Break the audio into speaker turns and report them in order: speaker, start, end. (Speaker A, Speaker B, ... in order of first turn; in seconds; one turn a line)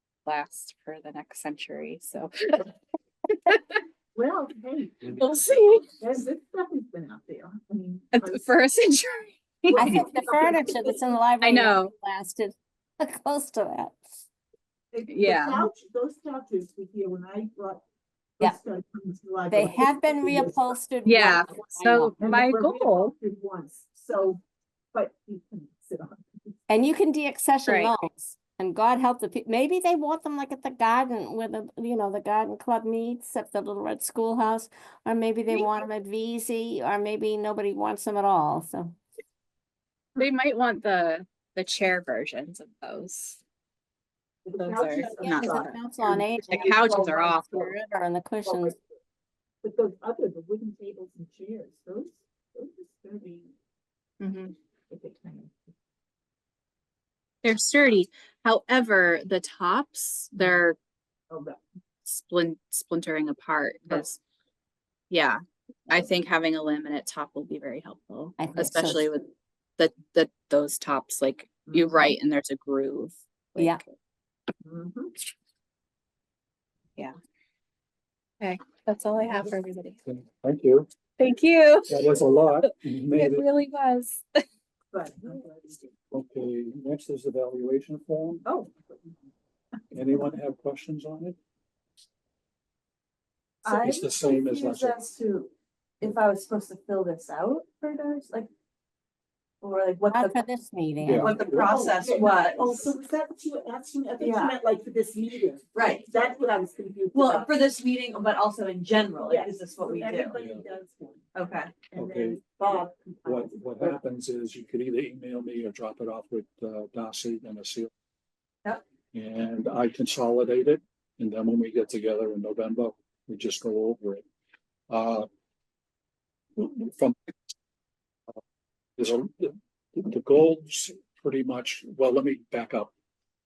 Speaker A: 0.3-2.7
Speaker B: 4.1-5.2
Speaker A: 5.1-5.9
Speaker B: 6.0-8.5
Speaker A: 8.1-10.0
Speaker B: 9.7-11.0
Speaker C: 9.8-14.2
Speaker A: 11.4-11.9
Speaker B: 14.9-17.8
Speaker A: 15.1-15.7
Speaker B: 18.4-20.8
Speaker C: 19.5-22.1
Speaker A: 21.1-23.1
Speaker B: 21.4-24.4
Speaker B: 24.9-26.6
Speaker C: 26.7-39.0
Speaker A: 27.7-27.9
Speaker A: 40.2-43.4
Speaker B: 44.5-47.7
Speaker A: 44.7-45.7
Speaker C: 45.0-48.7
Speaker A: 46.5-47.7
Speaker B: 48.5-48.8
Speaker B: 49.6-53.5
Speaker A: 54.2-54.5
Speaker B: 54.9-55.7
Speaker A: 57.4-60.8
Speaker B: 60.4-60.6
Speaker B: 61.3-61.6
Speaker A: 62.0-64.2
Speaker A: 65.1-73.9
Speaker C: 68.4-69.1
Speaker B: 71.7-72.0
Speaker B: 74.6-75.1
Speaker A: 78.4-80.0
Speaker D: 80.1-80.9
Speaker A: 81.2-84.4
Speaker D: 81.9-83.5
Speaker B: 84.9-85.8
Speaker D: 86.1-88.4
Speaker B: 88.5-88.7
Speaker D: 89.9-91.4
Speaker D: 93.7-95.0
Speaker E: 93.7-98.5
Speaker E: 99.6-100.4
Speaker C: 100.1-101.4
Speaker D: 101.0-101.8
Speaker E: 101.2-102.9
Speaker B: 101.5-107.5
Speaker E: 104.2-104.5
Speaker E: 105.7-106.1
Speaker E: 107.1-110.3
Speaker B: 109.2-111.3
Speaker D: 110.4-110.6
Speaker E: 111.3-111.9
Speaker B: 111.9-113.6
Speaker D: 112.0-112.4
Speaker D: 113.2-117.9
Speaker D: 119.1-124.2
Speaker D: 124.9-125.3
Speaker D: 126.6-127.2
Speaker D: 129.0-132.9